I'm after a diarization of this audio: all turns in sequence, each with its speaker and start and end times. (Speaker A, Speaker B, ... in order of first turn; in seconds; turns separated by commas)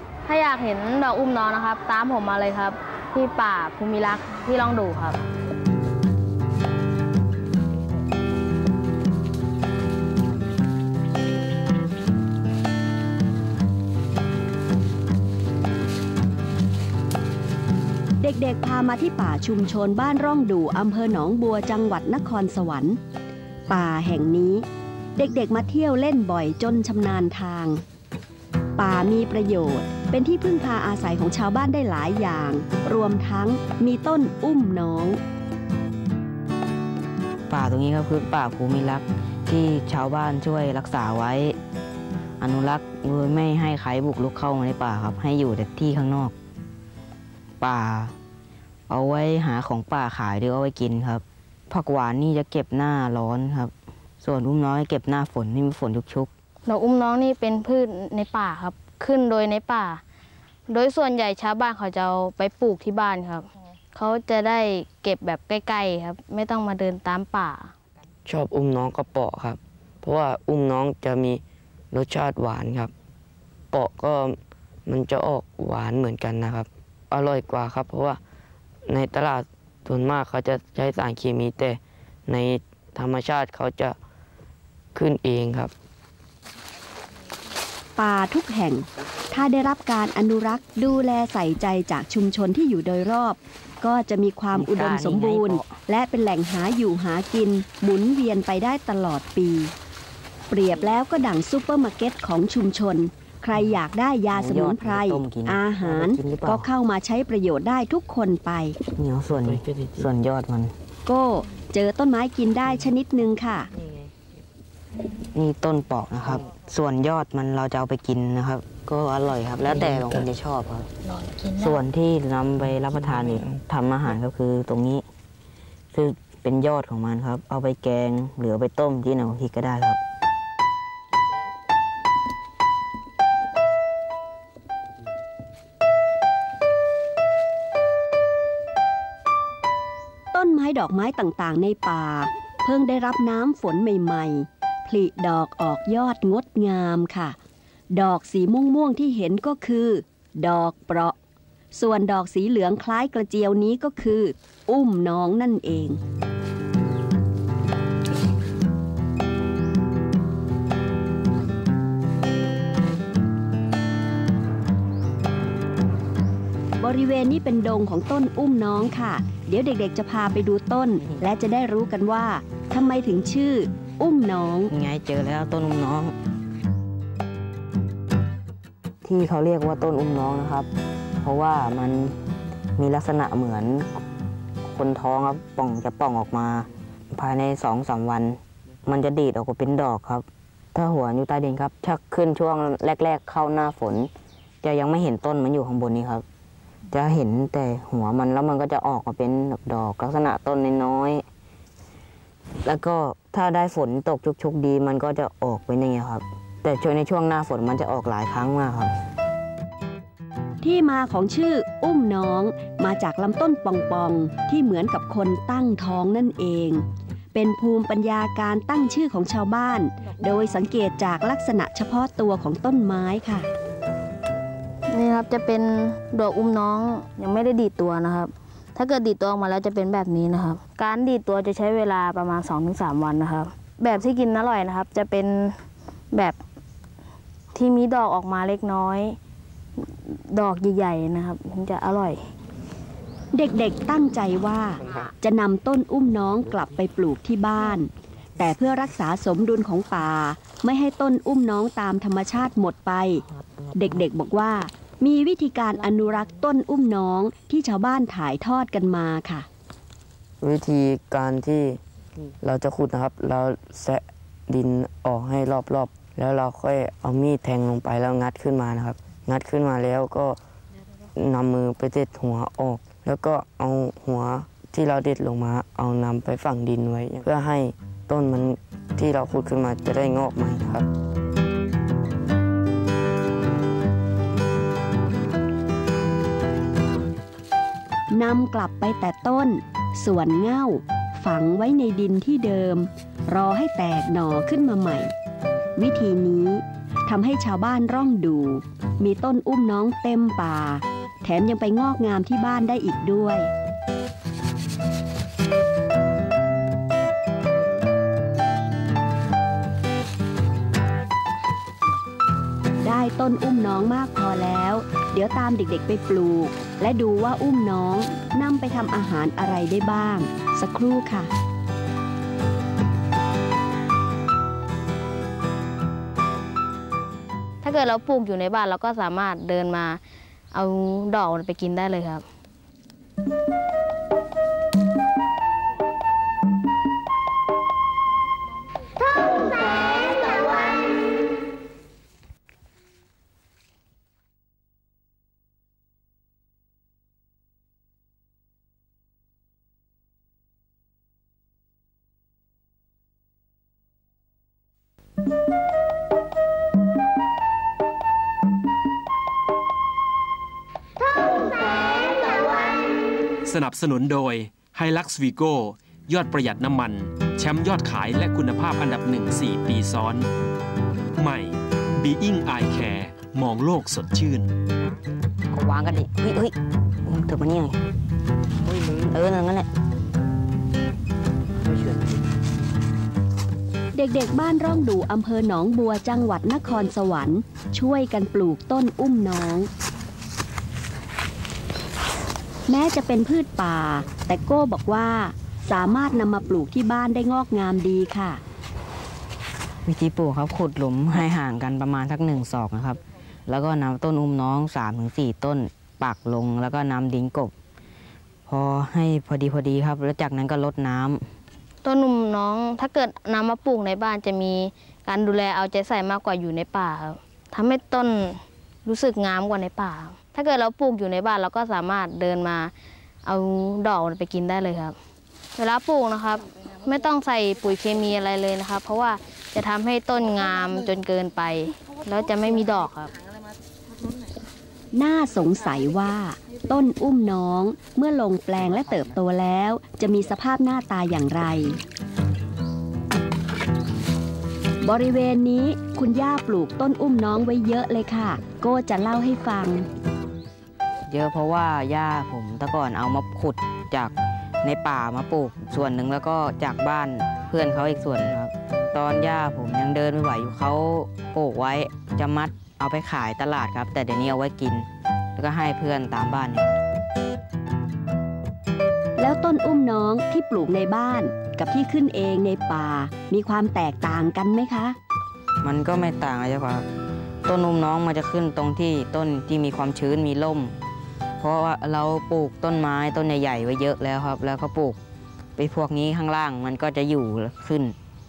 Speaker A: 0.2-5.2, Speaker B: 18.2-23.0, Speaker B: 23.7-27.8, Speaker B: 28.8-35.2, Speaker C: 37.5-41.5, Speaker C: 42.4-46.3, Speaker C: 47.6-48.1, Speaker C: 48.9-56.3, Speaker A: 56.6-60.0, Speaker A: 60.7-67.7, Speaker D: 68.2-72.9, Speaker D: 73.7-78.2, Speaker D: 78.9-84.0, Speaker D: 84.9-85.7, Speaker B: 88.0-99.7, Speaker C: 94.5-95.8, Speaker B: 100.5-108.8, Speaker C: 104.3-106.7, Speaker C: 109.0-110.7, Speaker D: 109.5-110.0, Speaker B: 111.0-113.7, Speaker C: 115.3-120.9, Speaker D: 119.7-120.2, Speaker C: 121.5-125.0, Speaker D: 123.0-123.5, Speaker C: 125.9-130.0, Speaker B: 140.3-147.4, Speaker B: 147.9-151.1, Speaker B: 151.7-156.0, Speaker B: 166.8-174.7, Speaker C: 171.0-171.2, Speaker C: 174.7-176.1, Speaker C: 179.0-180.7, Speaker C: 181.2-182.2, Speaker C: 182.8-183.9, Speaker C: 184.7-194.1, Speaker C: 194.6-196.2, Speaker C: 196.9-201.2, Speaker C: 202.6-208.9, Speaker B: 210.6-223.5, Speaker A: 224.9-235.6, Speaker A: 236.1-236.4, Speaker A: 237.5-239.2, Speaker A: 239.9-242.2, Speaker B: 243.3-253.2, Speaker B: 253.7-259.5, Speaker D: 260.4-261.8, Speaker D: 262.4-270.4, Speaker D: 271.1-280.9, Speaker B: 288.1-295.1, Speaker B: 295.8-303.5, Speaker B: 312.8-321.3, Speaker A: 327.6-330.0, Speaker A: 330.5-332.2, Speaker E: 363.4-370.3, Speaker E: 371.2-374.5, Speaker C: 375.5-377.8, Speaker C: 378.7-379.7, Speaker B: 383.9-389.7, Speaker B: 392.7-398.4, Speaker C: 399.9-407.5, Speaker C: 408.5-411.2, Speaker A: 411.8-422.7, Speaker A: 423.2-424.9, Speaker A: 425.6-433.1, Speaker B: 434.9-441.8, Speaker B: 444.8-449.9, Speaker C: 451.1-466.8, Speaker B: 469.2-474.9, Speaker C: 475.6-476.9, Speaker C: 477.4-480.7, Speaker C: 481.4-485.0, Speaker C: 485.6-487.9